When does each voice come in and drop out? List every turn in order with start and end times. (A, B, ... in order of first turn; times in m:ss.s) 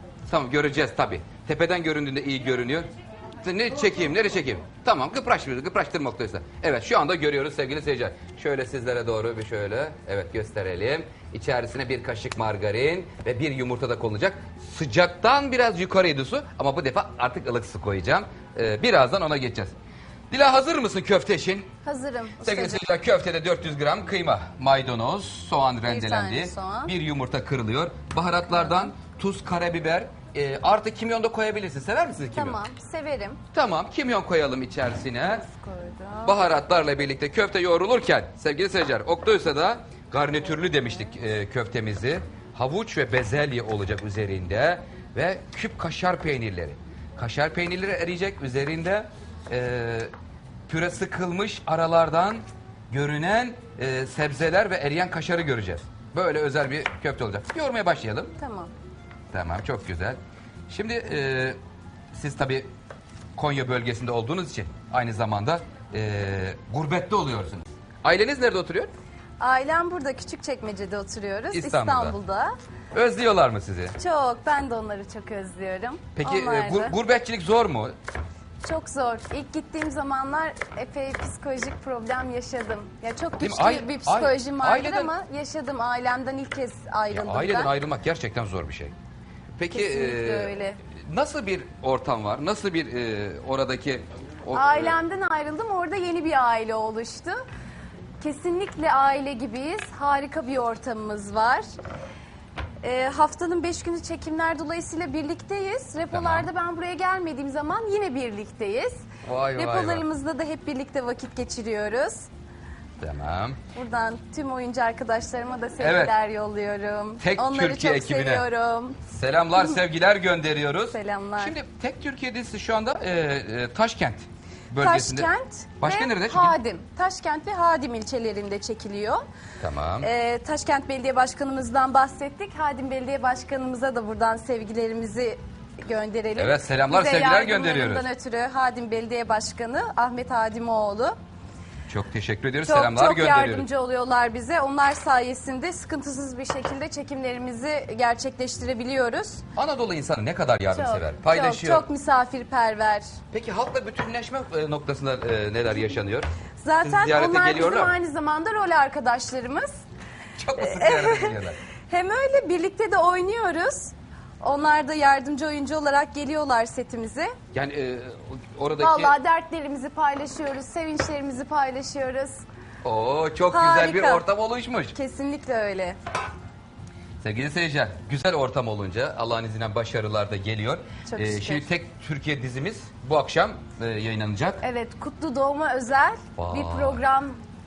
0:00.3-0:02.9 A
0:03.4-0:19.7 A
0:20.3-0:21.7 A
0:21.8-0:22.8 B
0:22.4-0:32.6 A
0:25.8-0:26.9 B
0:28.5-0:28.8 B
0:32.3-0:33.4 B
0:33.5-0:35.4 A
0:35.3-0:36.4 B
0:36.2-0:50.1 A
0:50.7-0:58.3 A
0:58.4-0:58.7 B
0:59.3-1:01.6 A
1:02.1-1:02.7 A
1:03.4-1:08.9 A
1:09.4-1:12.5 B
1:11.5-1:12.1 A
1:12.9-1:14.0 A
1:14.0-1:16.9 B
1:16.2-1:17.9 A
1:18.6-1:27.7 B
1:23.4-1:25.1 A
1:27.1-1:28.9 A
1:29.6-1:35.0 A
1:29.7-1:30.8 B
1:34.5-1:37.4 B
1:38.2-1:41.6 B
1:42.8-1:52.3 B
1:46.1-1:46.5 A
1:49.2-1:50.0 A
1:53.0-1:53.6 A
1:53.7-1:59.0 B
1:55.8-1:56.1 A
1:57.2-1:58.4 A
1:59.1-2:06.6 A
2:00.9-2:01.5 B
2:04.8-2:09.2 B
2:09.6-2:10.1 A
2:10.0-2:21.2 B
2:16.4-2:18.1 A
2:21.9-2:23.7 A
2:22.6-2:29.4 B
2:29.6-2:31.8 A
2:30.7-2:33.1 B
2:33.3-2:36.3 A
2:36.6-2:39.8 B
2:36.8-2:37.9 A
2:40.4-2:41.6 A
2:40.6-2:41.4 B
2:41.9-2:47.3 B
2:47.5-2:49.2 A
2:48.8-2:52.4 B
2:52.8-2:54.9 A
2:53.5-2:54.2 B
2:54.9-2:56.0 B
2:57.2-3:04.6 A
3:01.1-3:01.7 B
3:04.6-3:07.4 B
3:06.4-3:07.0 A